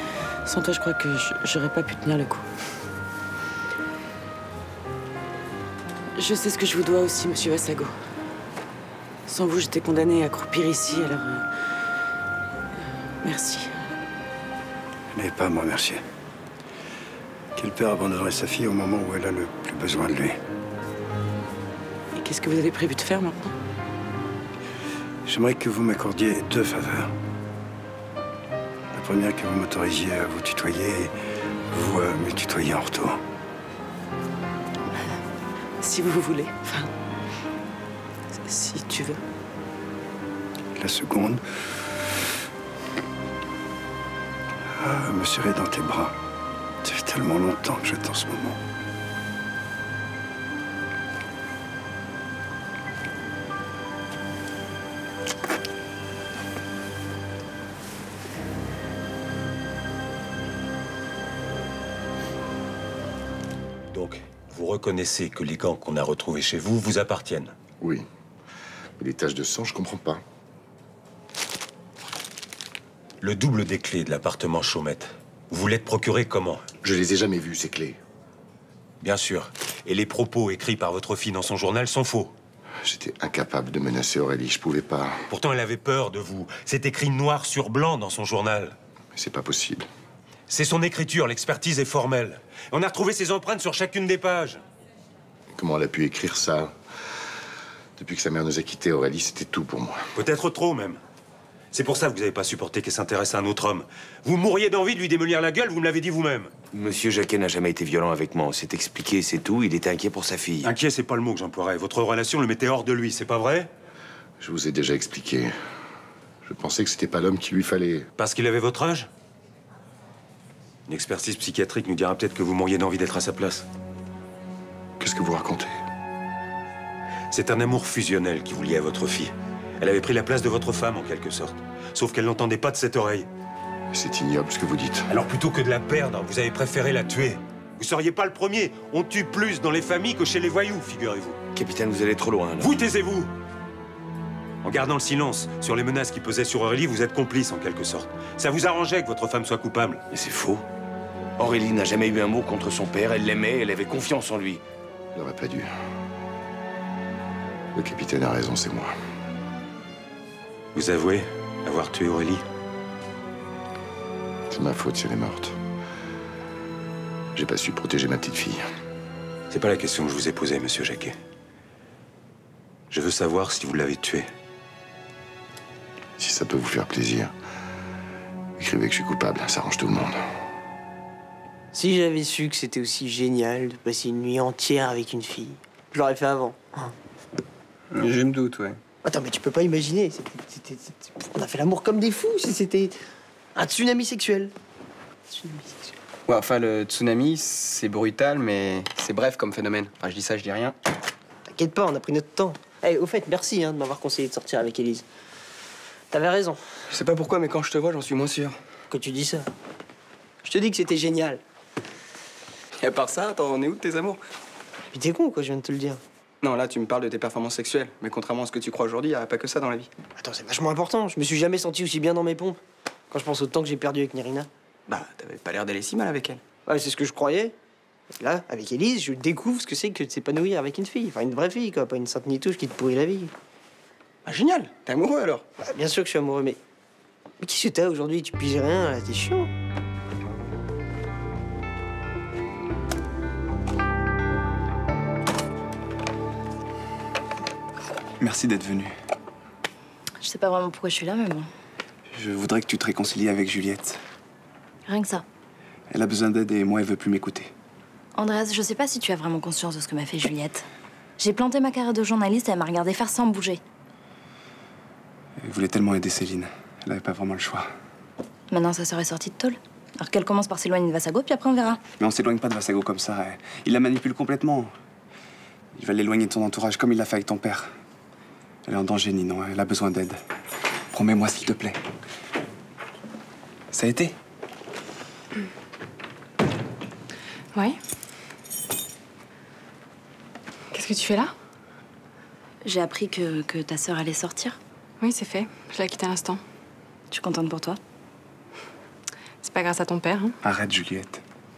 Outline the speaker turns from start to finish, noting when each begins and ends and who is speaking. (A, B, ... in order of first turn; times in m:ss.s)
0:00.5-0:02.4 A
0:06.2-0:07.9 A
0:09.3-0:11.5 A
0:13.2-0:13.8 A
0:15.1-0:16.0 B
0:17.6-0:20.4 B
0:22.1-0:23.5 A
0:25.2-0:27.1 B
0:28.9-0:31.1 B
0:31.7-0:33.2 B
0:35.8-0:36.9 A
0:38.4-0:39.2 A
0:40.8-0:41.4 B
0:44.8-0:46.1 B
0:46.8-0:48.6 B
1:03.9-1:07.5 C
1:07.8-1:08.0 D
1:09.0-1:10.2 D
1:13.2-1:16.6 C
1:16.8-1:18.0 D
1:19.0-1:22.3 C
1:22.8-1:25.2 D
1:25.3-1:28.8 C
1:29.1-1:29.9 D
1:30.5-1:34.6 C
1:35.5-1:36.7 D
1:38.0-1:40.0 D
1:40.2-1:41.0 C
1:41.7-1:46.5 C
1:46.7-1:50.7 E
1:50.6-1:53.7 C
1:54.4-1:55.5 D
1:56.4-1:58.1 D
1:58.2-1:59.1 C
2:00.9-2:03.6 C
2:05.0-2:05.7 D
2:07.3-2:13.3 C
2:13.9-2:15.1 D
2:15.1-2:21.4 C
2:21.5-2:22.7 E
2:22.6-2:23.3 C
2:24.6-2:30.0 C
2:30.1-2:30.6 E
2:31.4-2:34.6 E
2:35.1-2:35.8 D
2:37.8-2:38.9 D
2:40.8-2:42.4 C
2:44.5-2:45.6 D
2:47.4-2:48.6 D
2:49.5-2:51.2 C
2:52.9-2:54.3 C
2:56.2-2:57.3 D
2:58.6-3:00.2 D
3:01.7-3:06.9 F
3:09.0-3:13.0 F
3:13.5-3:14.5 F
3:15.3-3:15.9 F
3:16.5-3:20.6 G
3:21.5-3:25.0 F
3:26.1-3:26.6 F
3:26.9-3:27.4 H
3:28.0-3:28.5 H
3:28.9-3:29.5 F
3:30.4-3:31.4 F
3:34.9-3:36.0 F
3:36.7-3:37.8 G
3:38.3-3:39.6 G
3:40.2-3:44.5 F
3:46.6-3:47.5 F
3:48.1-3:53.3 F
3:54.2-3:56.6 F
3:57.4-3:59.5 F
4:08.2-4:08.9 H
4:10.2-4:11.5 I
4:12.1-4:14.0 H
4:14.9-4:15.2 I
4:15.9-4:17.5 H
4:18.1-4:20.6 I
4:21.2-4:23.6 I
4:25.4-4:27.7 H
4:28.5-4:31.8 I
4:32.0-4:34.7 H
4:35.7-4:37.7 H
4:38.6-4:40.2 H
4:40.9-4:41.8 H
4:43.7-4:44.1 H
4:47.5-4:47.8 J
4:50.7-4:51.3 J
4:52.6-4:54.6 I
4:55.0-4:56.4 J
4:57.1-4:57.8 I
4:59.4-5:00.4 J
5:00.4-5:01.2 H